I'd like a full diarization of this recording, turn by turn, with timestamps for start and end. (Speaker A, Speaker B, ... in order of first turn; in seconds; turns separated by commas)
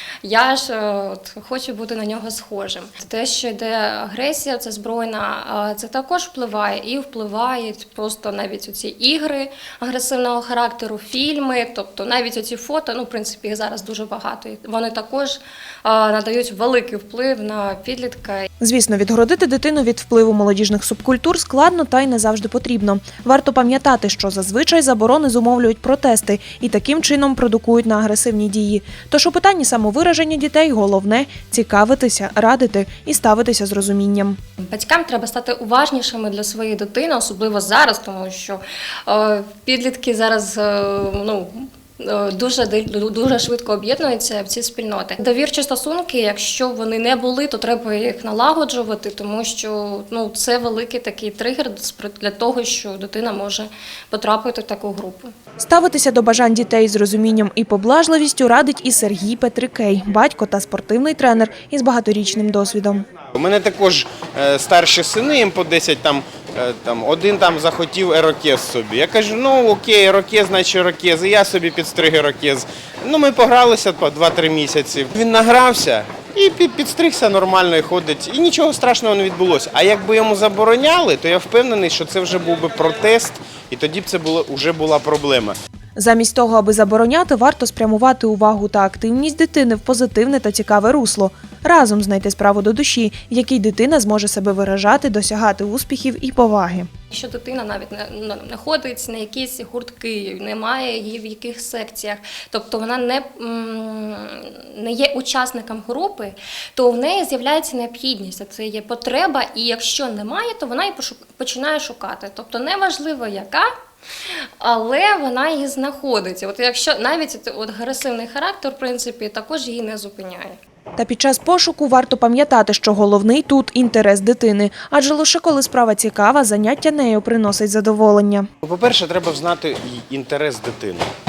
Speaker A: 0.2-18.5, Speaker B: 18.6-34.4, Speaker A: 34.6-55.3, Speaker B: 55.6-63.1, Speaker C: 63.3-85.6, Speaker B: 86.0-96.9, Speaker A: 97.1-113.7, Speaker A: 114.6-120.6, Speaker B: 121.0-128.5, Speaker C: 128.6-131.1